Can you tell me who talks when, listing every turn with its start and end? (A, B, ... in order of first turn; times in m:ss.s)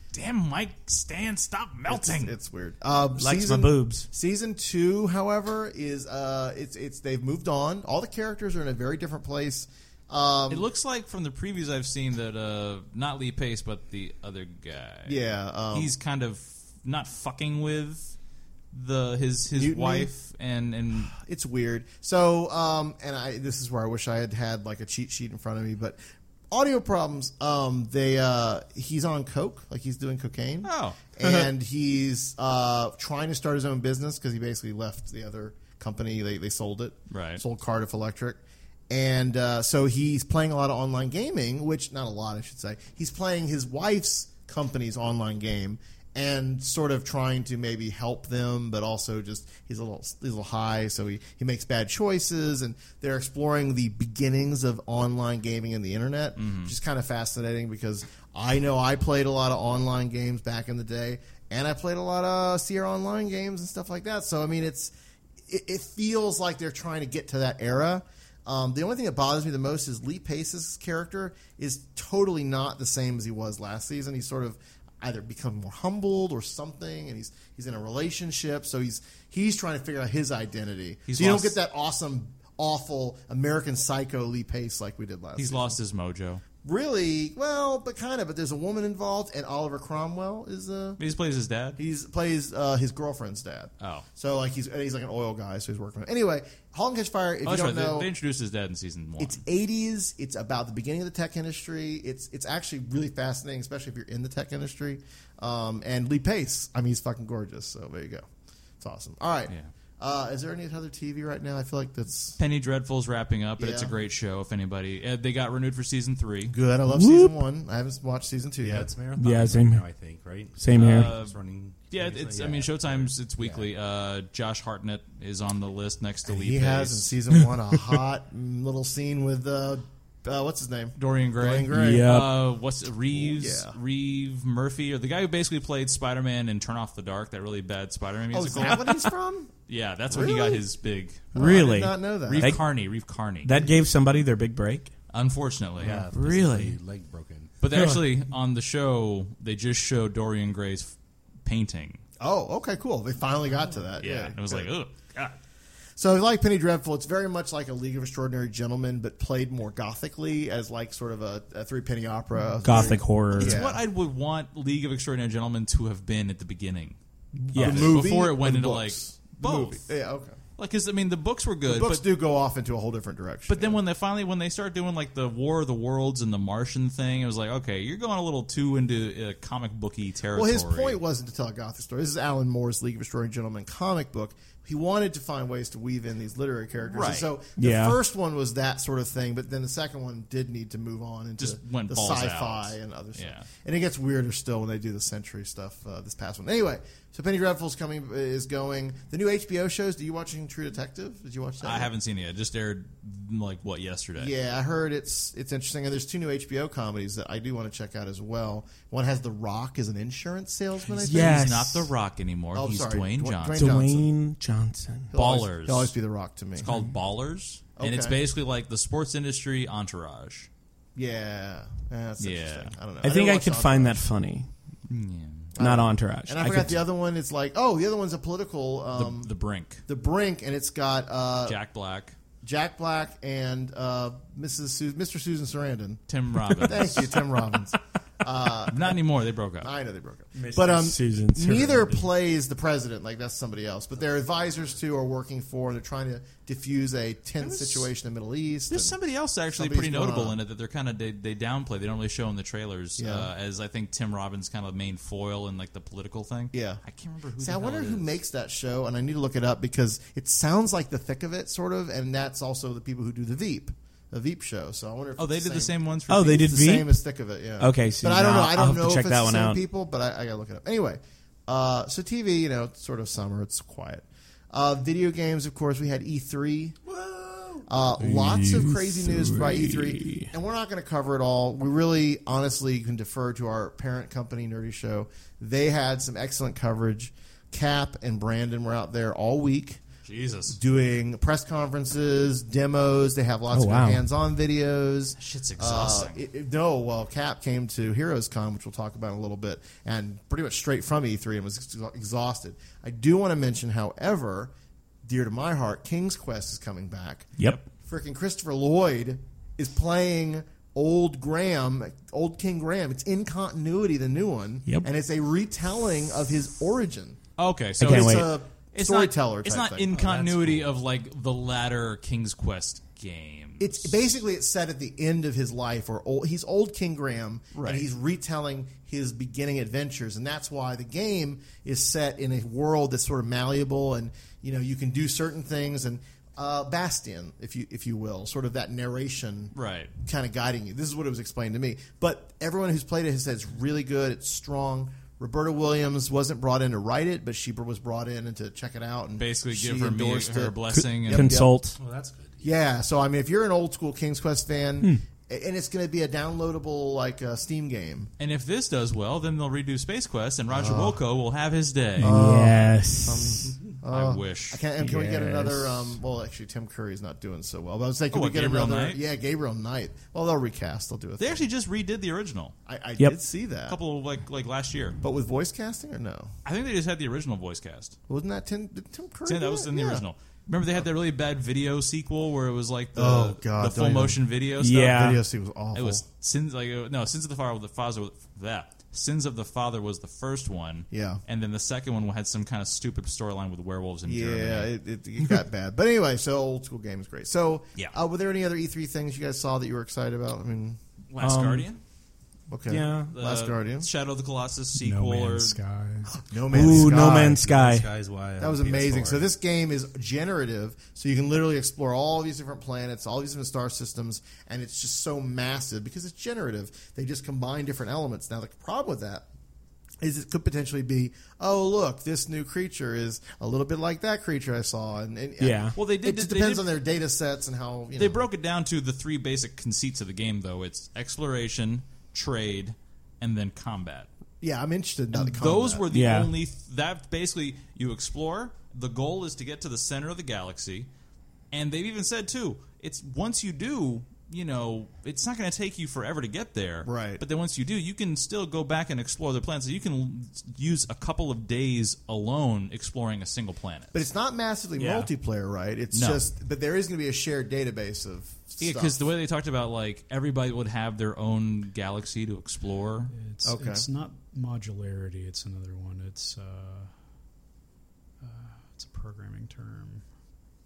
0:00.1-0:02.4 A
0:01.9-0:10.7 B
0:03.2-0:04.1 C
0:10.5-0:15.2 A
0:15.1-0:15.9 B
0:15.7-0:18.2 A
0:18.7-0:21.1 A
0:19.5-0:20.1 B
0:20.9-0:26.0 B
0:26.5-1:04.9 B
0:30.6-0:31.0 A
0:37.1-0:37.4 A
0:56.4-0:56.7 A
1:05.5-1:25.8 B
1:21.1-1:21.6 A
1:25.4-1:26.4 A
1:26.6-1:31.0 B
1:31.0-1:31.8 A
1:31.8-1:38.1 B
1:33.8-1:34.1 A
1:37.4-1:39.4 A
1:39.2-1:48.2 B
1:48.8-1:52.4 B
1:52.4-1:56.5 A
1:53.6-1:53.9 B
1:56.5-1:58.9 B
1:56.9-1:57.4 C
1:58.6-2:03.7 D
1:59.2-1:59.9 C
2:00.6-2:01.1 C
2:00.7-2:01.4 A
2:01.9-2:07.1 A
2:06.2-2:12.1 B
2:11.0-2:18.9 A
2:11.7-2:12.4 C
2:13.1-2:13.8 B
2:18.3-2:19.5 B
2:19.7-2:21.7 A
2:20.1-2:20.6 B
2:21.3-2:22.6 B
2:21.4-2:22.6 C
2:22.2-2:23.5 A
2:23.4-2:24.9 C
2:25.1-2:26.4 A
2:25.8-2:27.5 D
2:26.1-2:26.8 C
2:27.6-2:32.0 A
2:32.2-2:34.7 B
2:34.0-2:35.4 A
2:36.0-2:43.8 B
2:42.6-2:43.6 C
2:43.4-2:47.0 A
2:47.5-2:50.4 B
2:47.5-2:49.8 A
2:47.5-2:48.0 C
2:50.6-2:52.0 A
2:51.7-2:53.8 B
2:53.5-3:01.0 A
3:00.3-3:21.9 B
3:06.9-3:07.3 A
3:07.6-3:08.0 C
3:11.4-3:13.5 A
3:21.6-3:24.3 A
3:24.2-3:31.5 B
3:31.0-3:31.9 C
3:31.0-3:33.6 A
3:32.5-3:34.1 B
3:33.6-3:35.1 C
3:35.1-3:36.7 B
3:35.1-3:35.9 A
3:36.6-3:40.5 A
3:37.8-3:38.2 B
3:41.0-3:44.0 B
3:42.2-3:42.8 A
3:43.0-3:44.5 C
3:44.9-3:45.5 A
3:45.6-3:49.3 B
3:45.6-3:46.8 C
3:49.0-3:49.8 A
3:49.9-3:51.6 B
3:51.5-3:52.2 A
3:52.4-3:59.0 B
3:56.1-3:57.2 A
3:58.7-3:59.7 A
3:59.6-4:09.0 B
4:00.4-4:02.1 C
4:08.7-4:18.2 A
4:09.5-4:10.4 B
4:13.0-4:13.3 B
4:16.5-4:16.8 B
4:17.4-4:36.8 B
4:25.2-4:26.4 A
4:26.1-4:27.0 C
4:27.6-4:29.6 C
4:37.7-4:49.8 B
4:38.0-4:40.3 C
4:50.0-4:50.6 A
4:50.5-5:04.5 B
4:53.5-4:54.0 C
4:55.2-4:56.2 A
5:05.0-5:17.2 B
5:17.4-5:23.9 A
5:17.8-5:19.9 B
5:17.8-5:18.3 C
5:19.9-5:20.8 D
5:23.6-5:39.5 B
5:27.5-5:27.9 A
5:39.5-5:39.9 A
5:40.0-5:51.6 B
5:49.2-5:51.3 A
5:50.7-5:51.8 C
5:51.8-5:52.6 D
5:52.4-5:58.1 B
5:58.2-6:02.2 A
6:00.5-6:01.0 B
6:02.0-6:03.5 C
6:02.0-6:11.4 B
6:03.9-6:04.6 A
6:04.8-6:05.9 C
6:08.1-6:09.0 A
6:11.2-6:12.6 A
6:12.7-6:13.8 B
6:13.7-6:15.0 A
6:15.0-6:16.3 B
6:16.4-6:18.0 A
6:18.1-6:20.0 B
6:19.3-6:25.0 A
6:23.0-6:24.2 B
6:24.6-6:25.2 C
6:24.8-6:26.0 B
6:25.8-6:34.7 A
6:30.9-6:31.2 B
6:34.1-6:40.8 B
6:41.1-6:41.8 A
6:41.2-6:41.7 C
6:42.5-6:43.9 B
6:42.7-6:43.1 C
6:43.1-6:45.6 A
6:44.8-6:46.2 E
6:46.2-6:47.4 B
6:46.5-6:47.9 C
6:46.8-6:49.3 D
6:48.4-6:59.3 B
7:00.0-7:08.2 B
7:05.4-7:05.8 C
7:05.8-7:06.7 A
7:08.0-7:14.1 A
7:14.4-7:15.8 B
7:15.1-7:20.9 A
7:15.9-7:16.3 C
7:21.5-7:34.0 A
7:26.8-7:27.2 B
7:33.9-7:39.0 B
7:34.8-7:35.1 C
7:35.9-7:36.2 A
7:38.6-7:43.1 A
7:43.1-7:46.9 E
7:43.4-7:43.9 B
7:48.2-7:50.0 E